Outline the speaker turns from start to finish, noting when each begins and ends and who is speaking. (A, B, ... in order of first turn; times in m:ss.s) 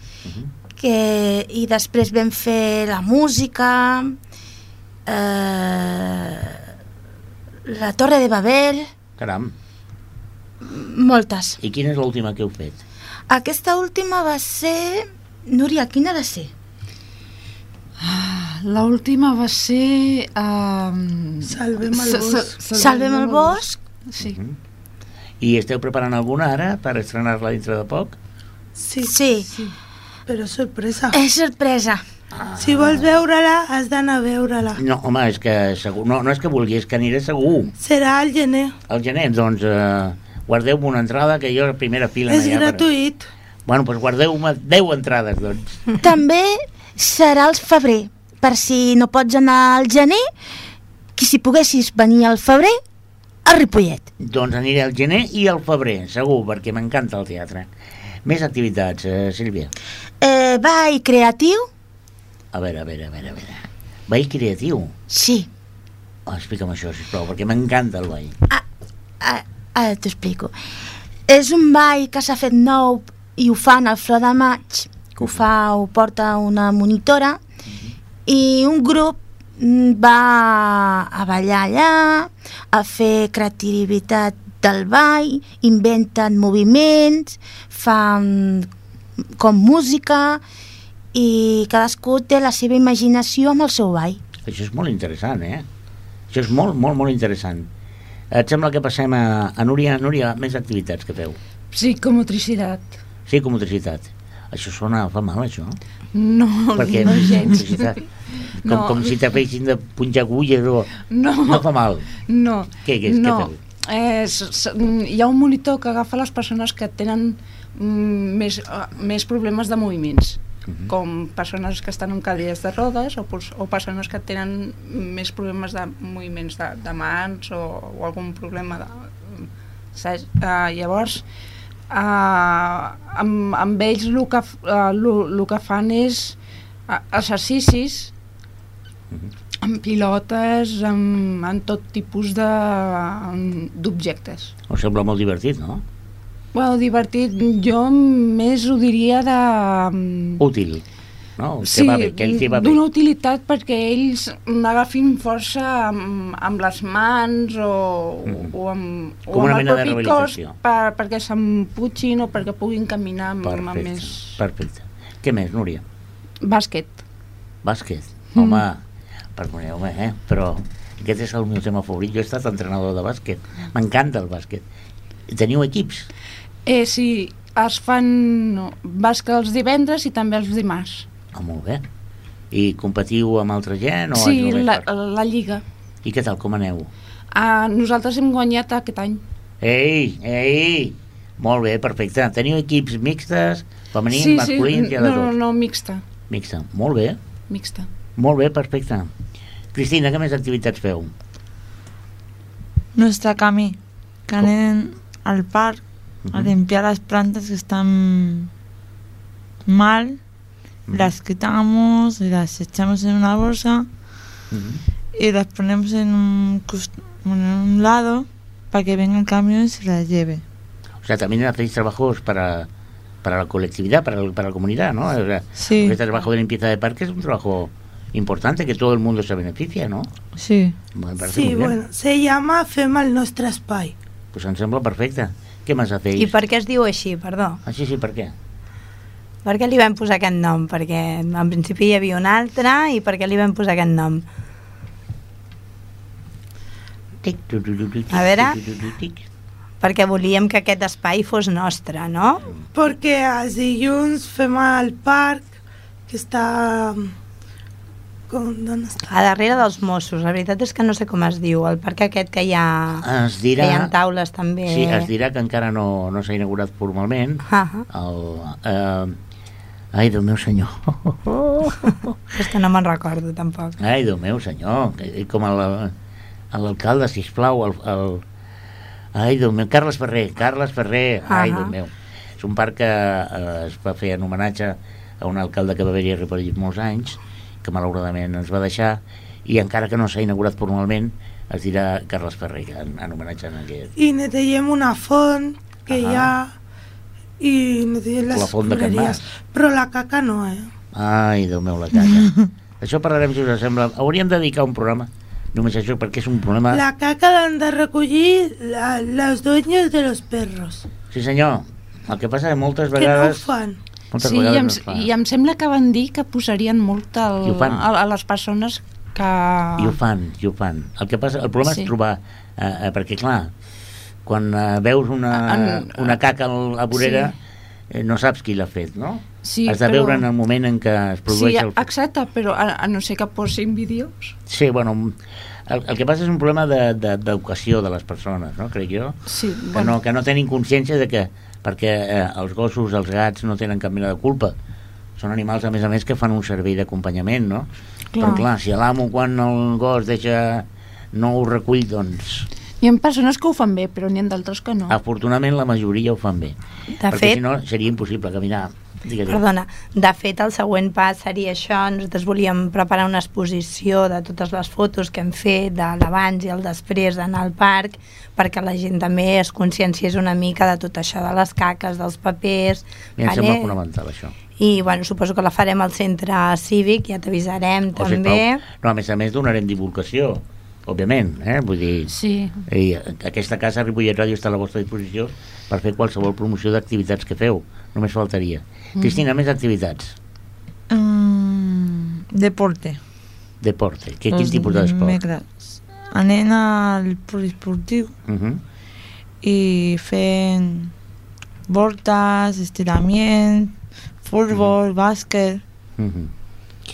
0:00.2-0:00.5 A
0:00.8-0:04.2 B
0:05.1-0:06.6 B
0:07.7-0:08.9 B
0:09.2-0:09.5 A
0:10.6-0:11.6 B
0:11.6-0:12.8 A
0:13.3-0:16.5 B
0:18.0-0:24.4 C
0:21.4-0:22.6 D
0:22.8-0:23.8 B
0:24.2-0:24.6 A
0:25.4-0:28.2 A
0:28.8-0:29.8 D
0:29.0-0:29.5 B
0:30.3-0:31.2 D
0:31.1-0:32.0 B
0:32.3-0:33.2 A
0:32.6-0:34.8 D
0:34.8-0:37.7 A
0:37.8-0:38.8 D
0:38.9-0:42.9 A
0:42.3-0:43.2 D
0:43.7-0:45.8 A
0:46.0-0:50.3 B
0:51.2-0:52.8 B
0:53.4-0:54.1 B
0:54.2-0:57.7 A
0:58.2-0:59.7 A
1:00.2-1:01.7 B
1:02.5-1:05.0 A
1:05.1-1:05.5 B
1:06.3-1:08.4 A
1:09.2-1:10.6 B
1:11.3-1:17.4 B
1:18.3-1:28.7 B
1:29.4-1:30.4 B
1:31.1-1:34.2 B
1:34.4-1:35.7 A
1:36.3-1:37.7 A
1:38.3-1:41.4 A
1:41.7-1:43.0 C
1:43.3-1:45.8 A
1:46.1-1:49.2 C
1:46.8-1:48.0 A
1:48.6-1:52.1 A
1:51.1-1:51.7 C
1:52.3-2:11.2 C
1:52.8-1:53.6 A
2:00.7-2:00.9 A
2:11.9-2:16.4 C
2:16.9-2:18.1 C
2:19.6-2:24.5 C
2:24.7-2:25.8 A
2:26.5-2:30.4 C
2:30.4-2:30.8 A
2:31.4-2:32.8 A
2:31.6-2:44.4 C
2:38.3-2:38.5 A
2:39.3-2:40.5 A
2:43.4-2:45.8 A
2:46.4-2:47.0 C
2:47.6-2:48.8 A
2:48.4-2:48.6 C
2:49.4-2:54.6 A
2:55.3-2:56.1 A
2:56.7-3:01.1 C
3:01.3-3:01.8 A
3:02.5-3:04.8 A
3:04.2-3:05.6 C
3:06.0-3:06.9 A
3:07.3-3:09.2 C
3:09.6-3:15.3 A
3:14.1-3:16.0 C
3:16.3-3:17.2 A
3:17.5-3:17.9 C
3:18.2-3:19.1 A
3:19.7-3:21.1 A
3:23.0-3:28.5 E
3:26.2-3:26.6 A
3:29.7-3:30.2 E
3:30.9-3:31.1 A
3:30.9-3:33.9 E
3:34.5-3:34.8 A
3:35.2-3:40.4 E
3:41.0-3:42.7 A
3:43.2-3:50.1 A
3:45.6-3:46.0 E
3:50.4-3:50.8 E
3:50.9-3:51.8 A
3:51.2-3:54.0 D
3:54.3-3:56.4 A
3:56.2-3:57.6 F
3:57.6-3:58.3 A
3:59.4-4:04.2 F
4:07.2-4:09.2 A
4:08.1-4:08.6 F
4:09.8-4:12.5 F
4:12.7-4:15.6 D
4:16.1-4:17.1 D
4:18.3-4:19.1 D
4:19.1-4:23.1 F
4:23.0-4:23.9 A
4:23.6-4:25.1 F
4:24.7-4:29.2 A
4:27.5-4:27.9 F
4:29.9-4:32.2 A
4:32.3-4:33.8 F
4:33.8-4:36.0 A
4:36.5-4:38.2 A
4:39.1-4:53.9 A
4:41.3-4:41.7 F
4:54.0-4:56.5 D
4:55.9-4:56.3 A
4:57.4-5:00.7 D
4:58.3-4:59.3 A
5:00.9-5:06.8 A
5:06.7-5:10.9 D
5:11.1-5:13.5 A
5:13.0-5:13.8 D
5:14.1-5:15.1 A
5:14.2-5:20.0 C
5:17.4-5:17.8 A
5:19.8-5:23.5 A
5:21.7-5:21.9 C
5:24.2-5:27.4 A
5:25.3-5:26.2 C
5:26.9-5:27.4 C
5:27.9-5:31.9 A
5:29.4-5:30.2 C
5:31.3-5:34.4 C
5:34.5-5:39.2 A
5:39.3-5:40.0 C
5:39.7-5:44.5 A
5:45.2-5:52.5 A
5:48.2-5:48.4 C
5:52.8-5:55.0 C
5:54.9-5:56.6 A
5:57.0-5:57.4 F
5:57.1-5:59.4 A
5:59.3-6:13.8 F
6:13.2-6:14.4 A
6:14.6-6:18.6 F
6:18.0-6:22.1 A
6:22.1-6:22.6 C
6:22.7-6:30.2 A
6:29.0-6:29.2 C
6:30.9-6:33.0 E
6:33.6-6:35.2 A
6:34.3-6:38.1 E
6:38.3-6:38.6 A
6:39.4-6:40.9 E
6:41.7-6:45.6 E
6:46.0-6:46.3 A